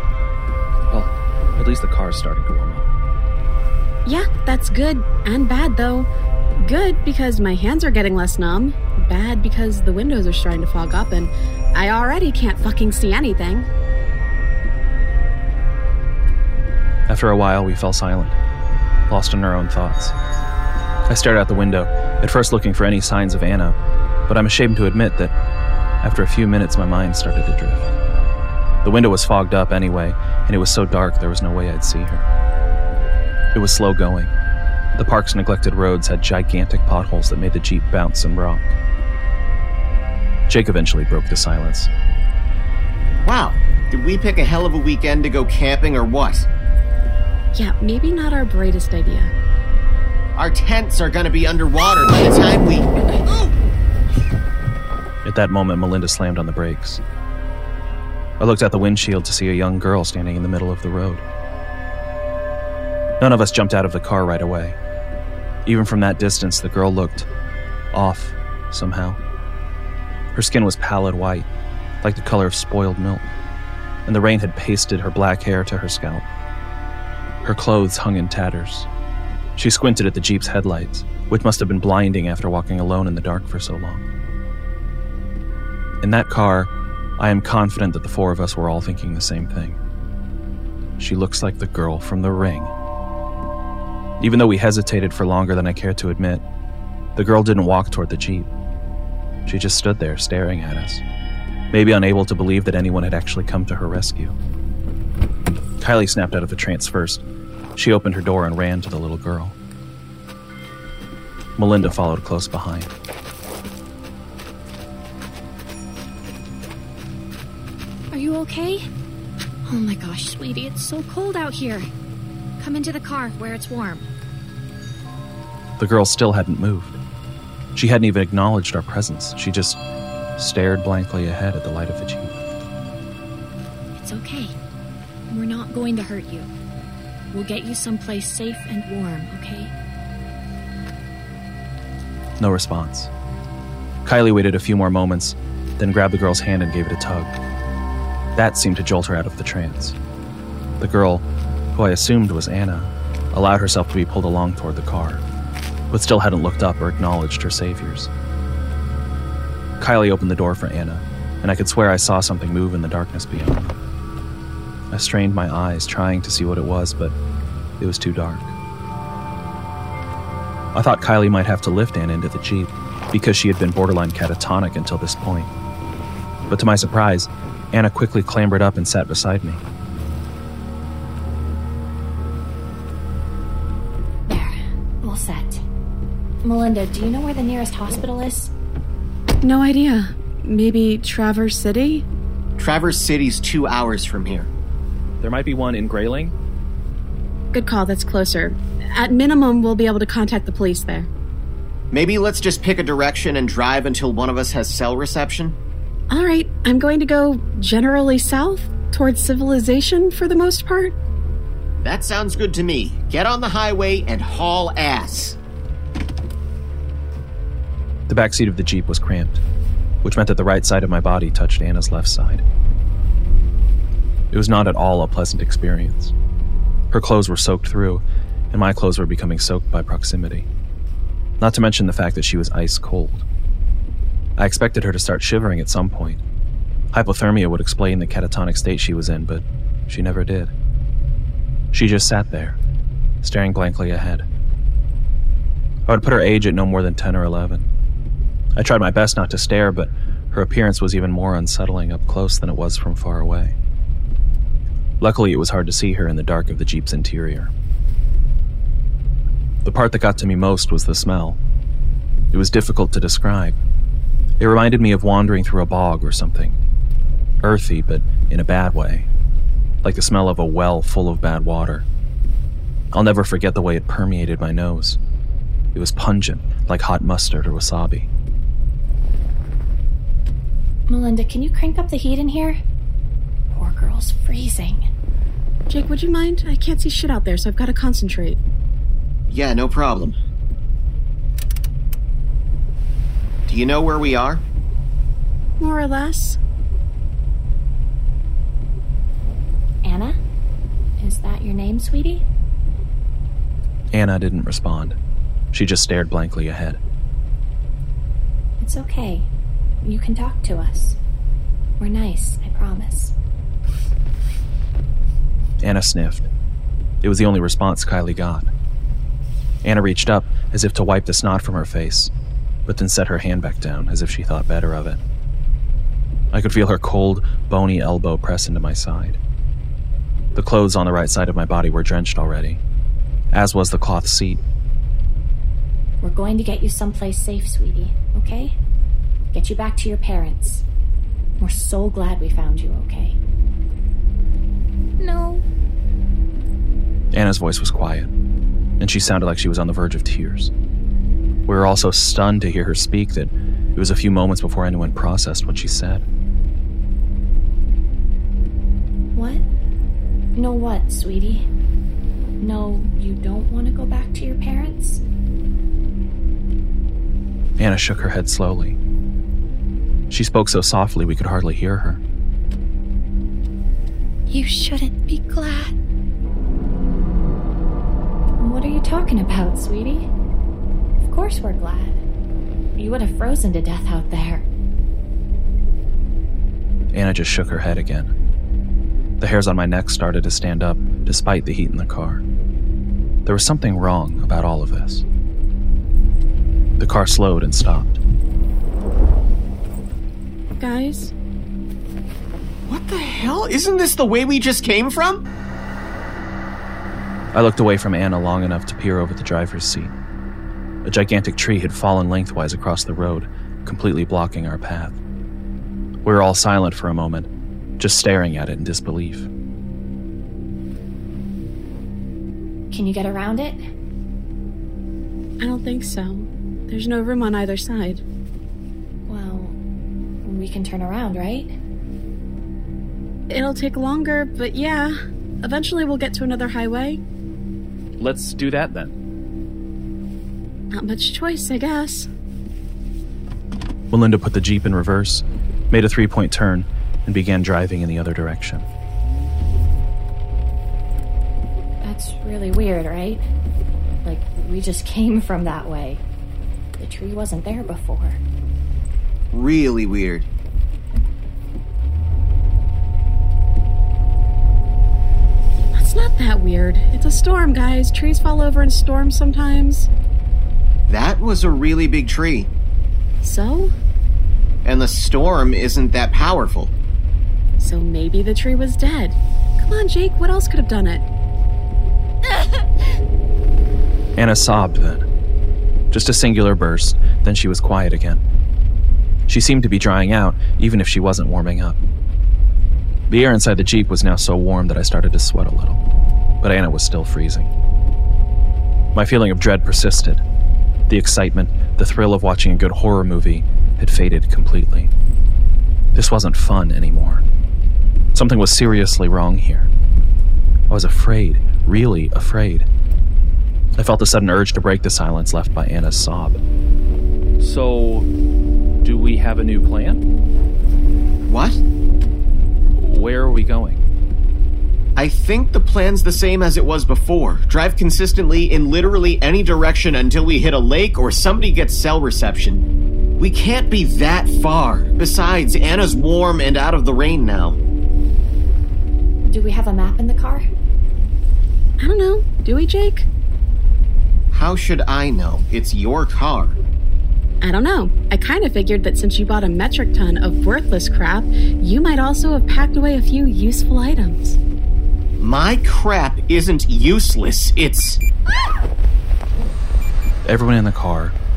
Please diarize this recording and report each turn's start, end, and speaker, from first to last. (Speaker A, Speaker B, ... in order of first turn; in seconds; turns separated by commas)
Speaker A: 0.9-2.9, Speaker B: 4.0-13.7, Speaker A: 17.1-18.4, Speaker A: 19.1-20.1, Speaker A: 21.1-25.3, Speaker A: 26.0-27.9, Speaker A: 28.8-32.3, Speaker A: 33.5-34.3, Speaker A: 34.9-38.7, Speaker A: 40.5-41.9, Speaker C: 43.2-46.5, Speaker B: 47.5-49.3, Speaker C: 50.3-53.5, Speaker A: 55.2-57.0, Speaker A: 58.4-61.2, Speaker A: 63.2-64.8, Speaker A: 65.6-67.3, Speaker A: 67.9-69.2, Speaker A: 70.3-71.5, Speaker A: 72.0-73.3, Speaker A: 74.0-76.2, Speaker A: 77.4-78.9, Speaker A: 79.5-84.0, Speaker A: 86.0-89.8, Speaker A: 91.0-92.7, Speaker A: 94.2-96.4, Speaker A: 97.2-98.5, Speaker A: 99.5-101.0, Speaker A: 101.7-104.3, Speaker A: 105.8-107.2, Speaker A: 107.8-109.5, Speaker A: 111.6-112.9, Speaker D: 118.1-118.9, Speaker D: 119.6-121.9, Speaker D: 122.6-124.1, Speaker A: 125.8-127.0, Speaker A: 127.7-129.8, Speaker A: 130.4-132.4, Speaker D: 133.9-134.6, Speaker D: 135.3-136.5, Speaker D: 137.3-139.7, Speaker A: 142.4-143.1, Speaker A: 144.0-147.4, Speaker A: 148.3-149.9, Speaker A: 150.8-155.2, Speaker A: 155.9-158.1, Speaker A: 159.8-163.7, Speaker A: 164.9-167.1, Speaker A: 167.8-168.5, Speaker A: 170.7-175.5, Speaker A: 176.5-179.6, Speaker D: 184.3-185.6, Speaker D: 186.4-188.5, Speaker B: 189.4-192.1, Speaker C: 192.6-194.5, Speaker A: 195.2-196.3, Speaker B: 197.5-201.1, Speaker C: 201.9-205.6, Speaker B: 206.1-210.9, Speaker C: 211.8-215.4, Speaker A: 218.1-219.4, Speaker A: 220.0-222.4, Speaker A: 224.3-226.1, Speaker A: 226.9-230.5, Speaker A: 231.4-233.2, Speaker A: 234.4-236.2, Speaker A: 236.9-240.5, Speaker A: 241.7-242.6, Speaker A: 243.2-244.2, Speaker A: 245.9-247.7, Speaker A: 248.6-253.5, Speaker A: 255.0-257.5, Speaker A: 259.6-261.4, Speaker A: 262.3-263.6, Speaker A: 264.4-266.6, Speaker A: 267.4-269.1, Speaker A: 269.8-271.8, Speaker A: 272.9-275.0, Speaker A: 275.7-278.1, Speaker D: 280.9-282.6, Speaker D: 283.5-284.9, Speaker B: 285.7-288.4, Speaker C: 289.3-290.1, Speaker C: 293.5-294.4, Speaker B: 295.6-296.4, Speaker D: 299.8-300.2, Speaker D: 301.0-302.2, Speaker A: 303.9-304.9, Speaker A: 305.5-306.8, Speaker D: 308.6-309.3, Speaker D: 309.8-311.0, Speaker D: 311.8-313.1, Speaker A: 315.6-316.3, Speaker A: 317.0-318.5, Speaker A: 319.6-322.1, Speaker A: 322.6-325.0, Speaker A: 326.3-329.2, Speaker A: 330.3-332.6, Speaker A: 333.3-334.4, Speaker D: 336.0-338.6, Speaker D: 339.3-340.6, Speaker D: 341.4-343.2, Speaker D: 345.0-345.4, Speaker A: 347.1-348.1, Speaker A: 348.8-350.5, Speaker A: 351.5-356.0, Speaker D: 359.1-359.4, Speaker D: 360.3-361.5, Speaker D: 362.4-365.0, Speaker A: 367.6-368.8, Speaker A: 370.1-372.0, Speaker D: 374.3-375.7, Speaker D: 378.4-380.1, Speaker D: 381.0-382.0, Speaker D: 382.8-384.4, Speaker A: 386.9-388.1, Speaker A: 389.2-392.2, Speaker A: 393.2-395.0, Speaker A: 396.8-398.0, Speaker B: 400.6-401.1, Speaker C: 402.7-405.2, Speaker A: 407.3-409.9, Speaker A: 410.8-415.0, Speaker A: 416.0-419.3, Speaker D: 422.7-423.6, Speaker B: 425.4-428.0, Speaker D: 429.1-429.6, Speaker D: 430.2-431.5, Speaker B: 433.3-437.0, Speaker A: 438.0-438.9, Speaker B: 440.7-442.1, Speaker A: 443.9-448.6, Speaker D: 451.8-453.3, Speaker D: 454.0-456.0, Speaker D: 456.8-458.2, Speaker C: 459.3-460.3, Speaker B: 465.7-469.9, Speaker C: 470.9-472.5, Speaker B: 473.2-473.7, Speaker C: 474.6-476.7, Speaker B: 477.6-481.0, Speaker A: 484.2-485.0, Speaker A: 485.9-488.2, Speaker A: 489.3-491.8, Speaker A: 493.1-495.8, Speaker A: 496.4-497.5, Speaker A: 498.9-500.2, Speaker A: 500.9-504.9, Speaker A: 505.9-507.2, Speaker A: 508.1-509.7, Speaker A: 510.7-512.7, Speaker A: 513.8-516.4, Speaker A: 517.4-518.1, Speaker A: 518.8-520.0, Speaker C: 521.3-521.6, Speaker A: 522.8-523.8, Speaker C: 525.0-532.6, Speaker C: 533.2-537.6, Speaker D: 539.2-540.5, Speaker B: 541.8-543.1, Speaker C: 544.3-546.6, Speaker B: 547.4-554.4, Speaker C: 555.2-558.0, Speaker A: 560.2-561.1